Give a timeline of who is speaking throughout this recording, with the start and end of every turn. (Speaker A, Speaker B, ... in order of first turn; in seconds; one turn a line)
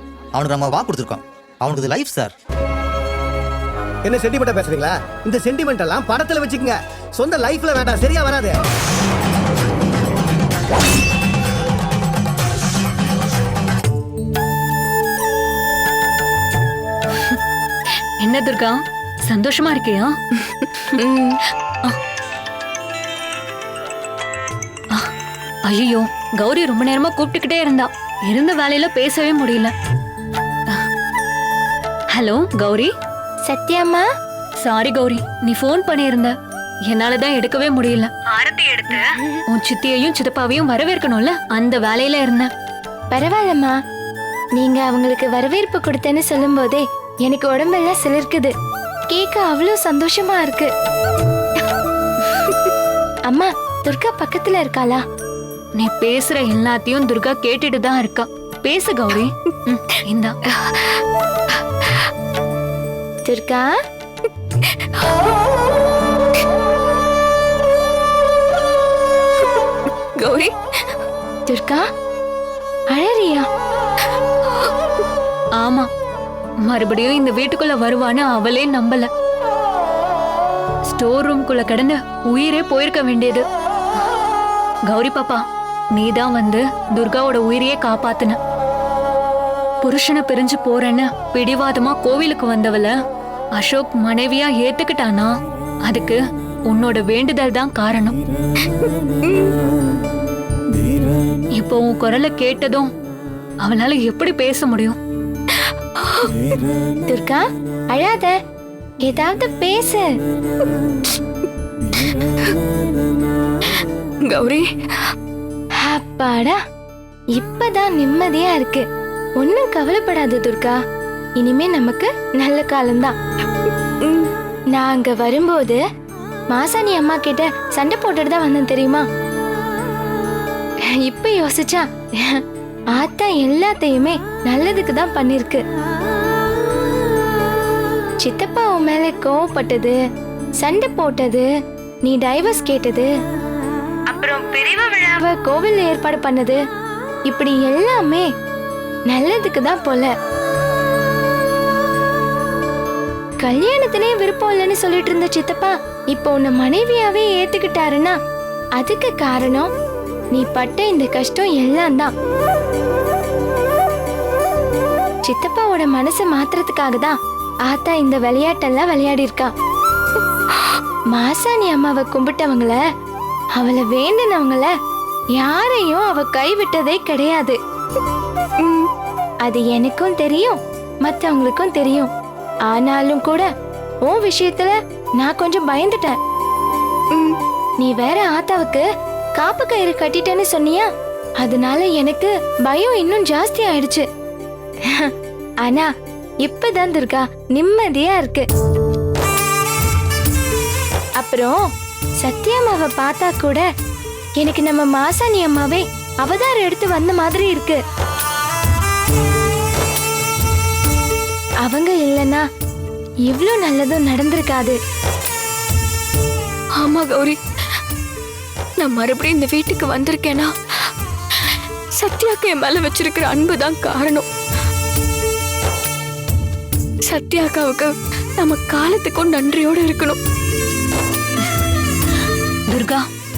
Speaker A: 0.3-2.3
Speaker B: 4.0-8.6
Speaker C: 18.2-20.1
Speaker C: 25.6-29.7
Speaker C: 32.1-32.9
Speaker D: 33.4-34.0
Speaker C: 34.6-36.3
Speaker C: 36.9-42.5
Speaker D: 43.1-43.7
Speaker D: 44.5-48.5
Speaker D: 49.1-50.7
Speaker D: 53.3-55.0
Speaker C: 55.8-59.3
Speaker C: 60.0-60.3
Speaker D: 63.2-63.6
Speaker E: 70.2-70.5
Speaker D: 71.5-71.8
Speaker D: 72.9-73.4
Speaker C: 75.6-75.9
Speaker C: 76.7-79.1
Speaker C: 80.9-83.4
Speaker C: 84.9-88.4
Speaker C: 89.8-93.0
Speaker C: 93.5-98.2
Speaker C: 101.5-102.9
Speaker C: 103.6-105.0
Speaker D: 107.1-108.3
Speaker D: 109.0-110.0
Speaker E: 114.2-114.7
Speaker D: 115.8-116.6
Speaker D: 117.3-118.8
Speaker D: 119.4-120.8
Speaker D: 121.4-123.1
Speaker D: 124.7-125.8
Speaker D: 126.5-129.0
Speaker D: 131.0-132.4
Speaker D: 132.9-135.6
Speaker D: 138.2-139.9
Speaker D: 140.6-141.4
Speaker D: 142.0-143.1
Speaker D: 144.1-146.6
Speaker D: 147.3-148.2
Speaker D: 149.1-150.1
Speaker D: 153.4-158.1
Speaker D: 158.8-159.7
Speaker D: 160.3-162.1
Speaker D: 165.2-169.5
Speaker D: 170.6-172.8
Speaker D: 173.6-174.7
Speaker D: 175.4-177.6
Speaker E: 178.6-178.9
Speaker D: 179.4-182.1
Speaker D: 182.7-183.5
Speaker D: 184.1-186.2
Speaker D: 187.8-188.8
Speaker D: 189.3-190.9
Speaker D: 191.4-194.0
Speaker D: 196.4-198.4
Speaker D: 201.2-201.6
Speaker D: 202.2-203.6
Speaker D: 204.4-207.8
Speaker D: 211.6-212.4
Speaker D: 213.3-214.8
Speaker E: 216.8-217.4
Speaker E: 218.8-220.5
Speaker E: 222.0-224.2
Speaker E: 227.0-230.2
Speaker C: 232.7-233.0